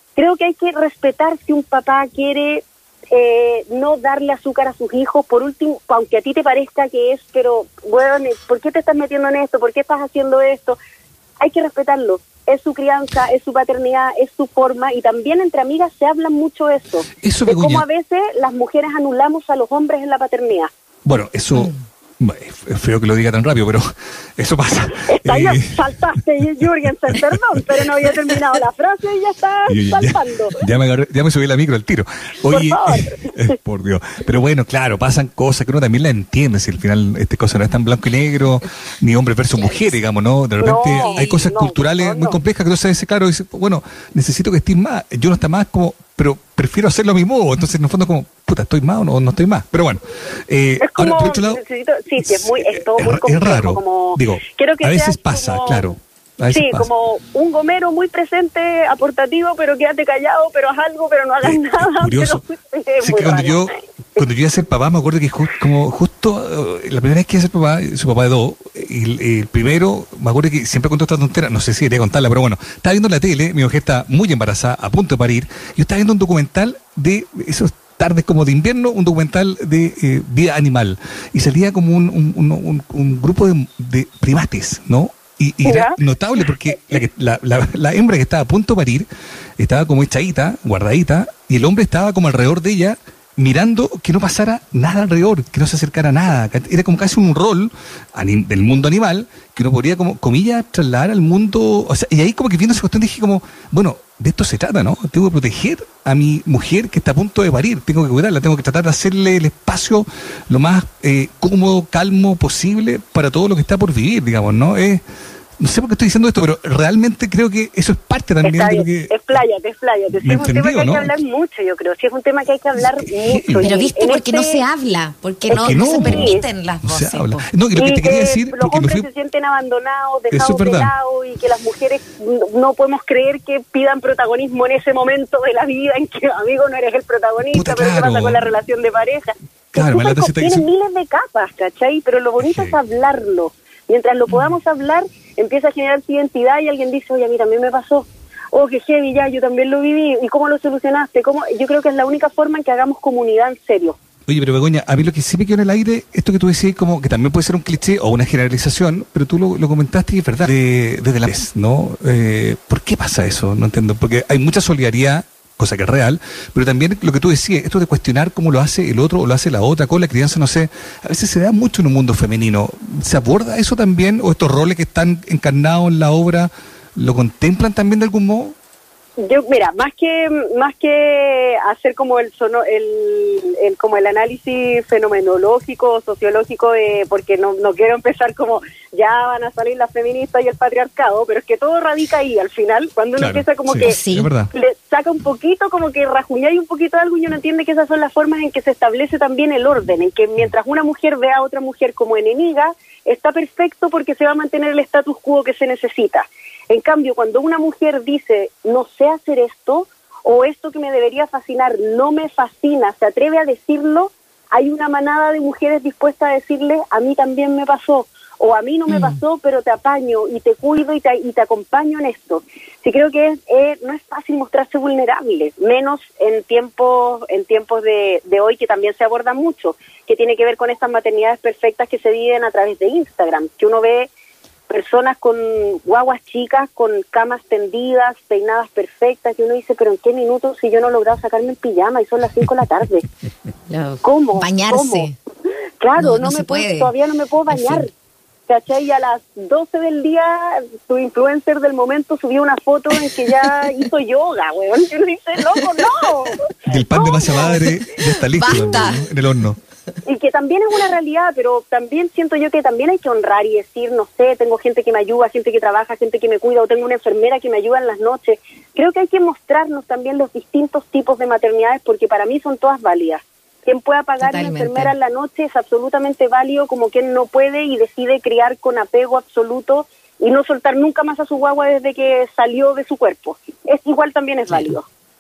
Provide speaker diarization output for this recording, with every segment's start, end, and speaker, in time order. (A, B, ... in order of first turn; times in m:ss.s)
0:00.2-0:10.8 A
0:11.4-0:20.7 A
0:17.2-0:17.8 B
0:21.1-0:23.8 B
0:24.4-0:25.8 B
0:25.0-0:30.6 A
0:29.7-0:51.6 B
0:32.5-0:33.4 A
0:40.6-0:42.4 A
0:41.0-0:41.2 C
0:50.8-0:55.9 A
0:52.2-0:56.9 B
0:56.5-1:03.7 A
1:01.4-1:02.4 B
1:03.0-1:29.1 B
1:25.6-1:26.0 A
1:29.6-1:55.0 B
1:55.6-1:59.1 B
1:58.4-2:04.6 A
2:00.1-2:01.1 B
2:03.2-2:03.7 B
2:03.6-2:07.4 C
2:05.5-2:06.4 A
2:05.5-2:09.0 B
2:07.8-2:34.0 A
2:10.3-2:10.9 B
2:17.5-2:18.5 B
2:19.8-2:20.6 B
2:22.4-2:22.8 B
2:34.3-2:58.6 B
2:59.2-3:54.1 A
3:13.2-3:14.5 B
3:13.8-3:14.3 C
3:38.9-3:39.2 C
3:54.7-4:03.1 A
4:03.7-4:05.2 C
4:04.0-4:05.1 A
4:05.8-4:07.9 A
4:06.0-4:06.9 C
4:07.5-4:07.8 C
4:08.5-4:17.6 A
4:16.7-4:19.6 B
4:18.3-4:19.0 C
4:20.1-4:44.9 A
4:34.2-4:34.9 C